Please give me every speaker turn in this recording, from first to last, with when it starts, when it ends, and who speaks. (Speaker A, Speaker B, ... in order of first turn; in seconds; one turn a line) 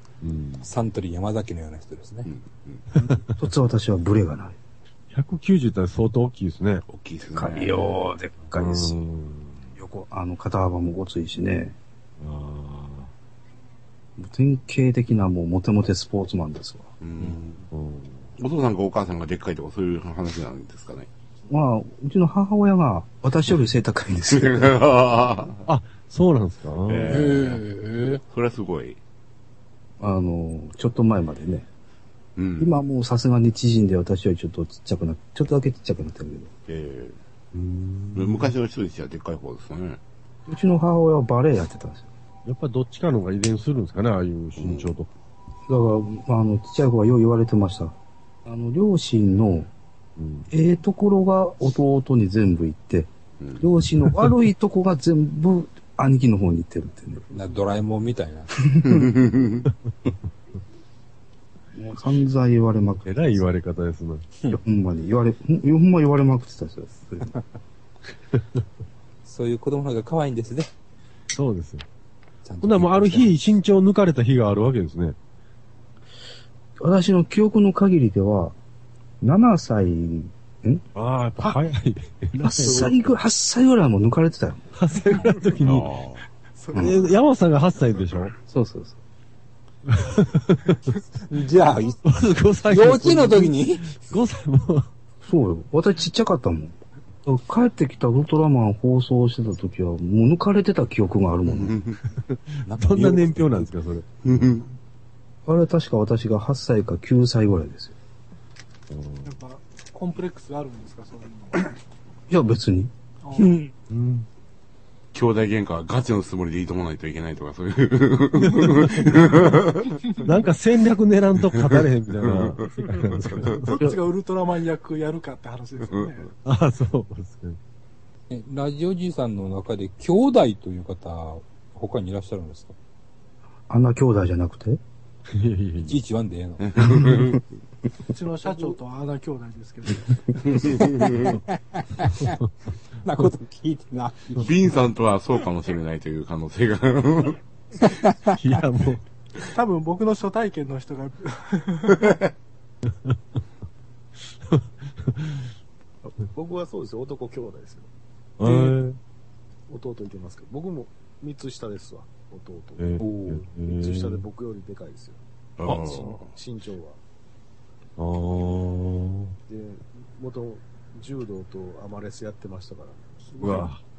Speaker A: 0.2-0.7
Speaker B: 0.6-2.3
Speaker C: 2.3-2.8
Speaker A: 3.0-3.3
Speaker D: 3.0-4.6
Speaker A: 5.1-6.8
Speaker C: 6.9-7.9
Speaker D: 7.3-9.0
Speaker A: 8.6-9.6
Speaker D: 9.8-11.8
Speaker A: 12.2-13.1
Speaker D: 14.2-16.9
Speaker C: 17.0-17.7
Speaker A: 17.7-18.3
Speaker C: 18.4-21.1
Speaker D: 21.5-24.9
Speaker C: 24.3-25.6
Speaker A: 25.7-27.4
Speaker C: 26.9-29.0
Speaker D: 30.0-31.7
Speaker C: 32.4-32.7
Speaker D: 32.6-36.5
Speaker C: 36.7-37.2
Speaker A: 37.5-38.5
Speaker C: 38.1-40.0
Speaker D: 40.5-42.1
Speaker A: 42.5-45.1
Speaker C: 44.6-44.9
Speaker D: 45.7-49.7
Speaker A: 50.2-50.5
Speaker D: 50.5-57.2
Speaker B: 57.3-58.5
Speaker D: 58.8-59.1
Speaker C: 58.9-59.7
Speaker D: 61.8-63.4
Speaker A: 63.0-64.3
Speaker D: 64.5-67.3
Speaker B: 69.2-70.7
Speaker A: 71.3-71.8
Speaker B: 72.5-73.4
Speaker A: 72.6-75.2
Speaker D: 76.8-78.6
Speaker D: 79.2-80.8
Speaker A: 81.0-83.0
Speaker D: 82.4-84.7
Speaker A: 84.8-86.0
Speaker C: 85.6-86.2
Speaker E: 86.6-87.1
Speaker A: 86.7-88.3
Speaker D: 88.5-89.0
Speaker A: 89.9-91.0
Speaker B: 91.3-92.0
Speaker A: 92.0-94.9
Speaker B: 92.7-94.0
Speaker D: 95.2-101.8
Speaker C: 101.5-102.0
Speaker A: 102.3-104.3
Speaker B: 102.7-103.7
Speaker C: 104.2-104.7
Speaker D: 105.5-108.0
Speaker A: 108.9-109.3
Speaker E: 109.2-111.7
Speaker D: 112.3-112.9
Speaker E: 113.2-113.7
Speaker A: 113.9-114.3
Speaker C: 115.1-120.2
Speaker A: 118.4-119.5
Speaker E: 120.0-120.4
Speaker A: 120.2-123.9
Speaker C: 121.5-123.6
Speaker E: 123.6-126.3
Speaker A: 126.4-127.6
Speaker B: 128.3-132.8
Speaker D: 133.7-134.8
Speaker A: 135.3-136.0
Speaker B: 135.8-136.7
Speaker C: 136.8-137.4
Speaker A: 137.0-137.3
Speaker E: 138.1-140.4
Speaker C: 140.7-141.3
Speaker B: 141.1-142.4
Speaker A: 141.1-141.4
Speaker A: 142.2-142.5
Speaker B: 143.0-144.5
Speaker C: 144.4-147.4
Speaker B: 147.8-148.3
Speaker A: 148.4-149.0
Speaker E: 149.5-152.1
Speaker A: 152.9-153.2
Speaker A: 154.3-155.5
Speaker F: 156.3-157.9
Speaker A: 158.4-159.0
Speaker F: 159.7-163.0
Speaker A: 162.8-164.2
Speaker B: 163.0-163.4
Speaker F: 163.7-167.0
Speaker C: 165.6-166.3
Speaker A: 165.7-166.0
Speaker A: 168.0-169.3
Speaker F: 169.5-173.7
Speaker A: 173.4-173.8